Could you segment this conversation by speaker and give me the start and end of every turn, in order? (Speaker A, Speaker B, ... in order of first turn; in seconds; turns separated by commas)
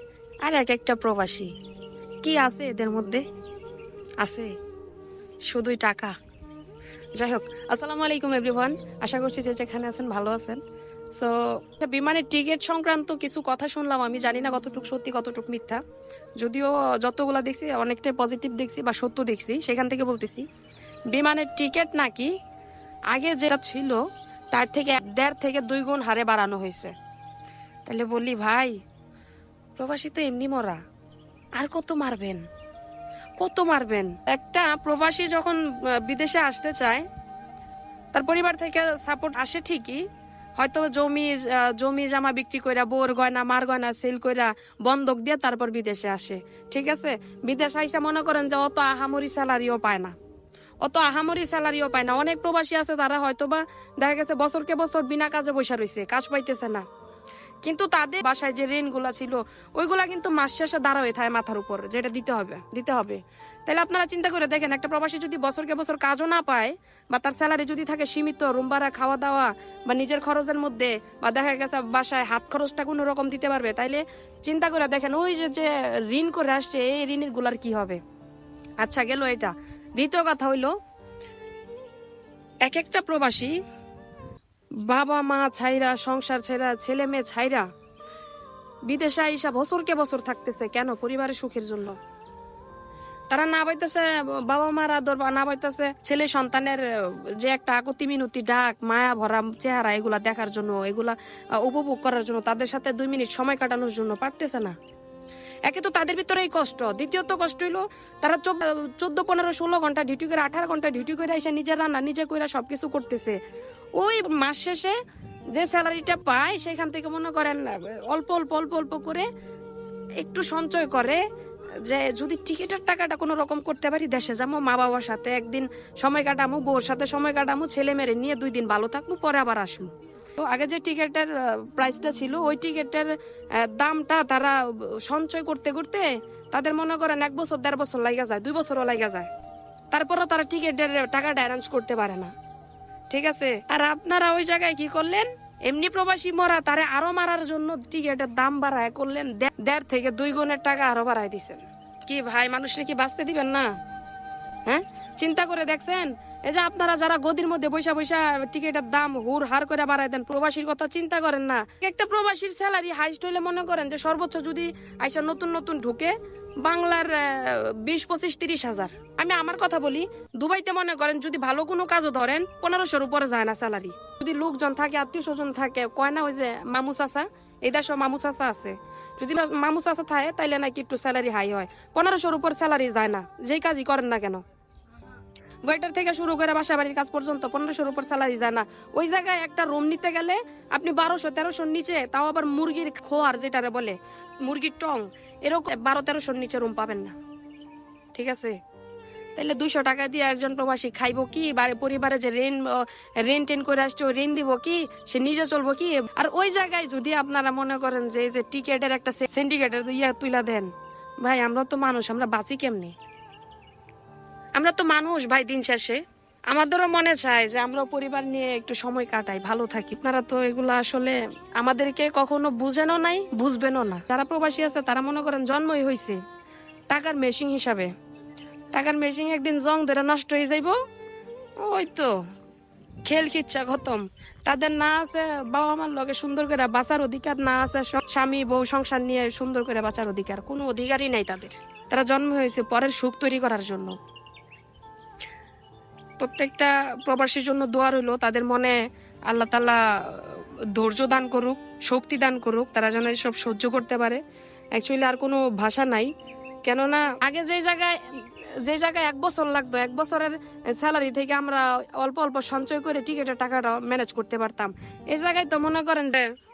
Speaker A: 0.4-1.5, Speaker A: 2.2-3.2, Speaker A: 4.2-4.5, Speaker A: 5.5-6.2, Speaker A: 7.1-10.6, Speaker A: 11.2-15.8, Speaker A: 16.4-20.4, Speaker A: 21.1-22.3, Speaker A: 23.1-24.0, Speaker A: 24.5-26.9, Speaker A: 27.9-28.8, Speaker A: 29.8-30.8, Speaker A: 31.6-32.4, Speaker A: 33.4-37.1, Speaker A: 38.1-40.0, Speaker A: 40.6-50.1, Speaker A: 50.8-56.9, Speaker A: 57.6-78.0, Speaker A: 78.8-80.7, Speaker A: 82.7-83.5, Speaker A: 84.9-87.7, Speaker A: 88.9-92.0, Speaker A: 93.3-104.8, Speaker A: 105.7-113.4, Speaker A: 114.0-115.0, Speaker A: 115.5-119.3, Speaker A: 120.2-121.2, Speaker A: 121.8-139.3, Speaker A: 139.9-142.3, Speaker A: 143.1-153.7, Speaker A: 154.7-184.4, Speaker A: 185.6-197.1, Speaker A: 198.1-198.6, Speaker A: 199.4-210.7, Speaker A: 211.2-212.9, Speaker A: 214.6-216.0, Speaker A: 216.5-226.2, Speaker A: 226.9-227.9, Speaker A: 228.7-230.8, Speaker A: 231.6-232.1, Speaker A: 233.0-244.0, Speaker A: 246.2-248.8, Speaker A: 249.3-254.2, Speaker A: 254.8-256.1, Speaker A: 256.6-266.3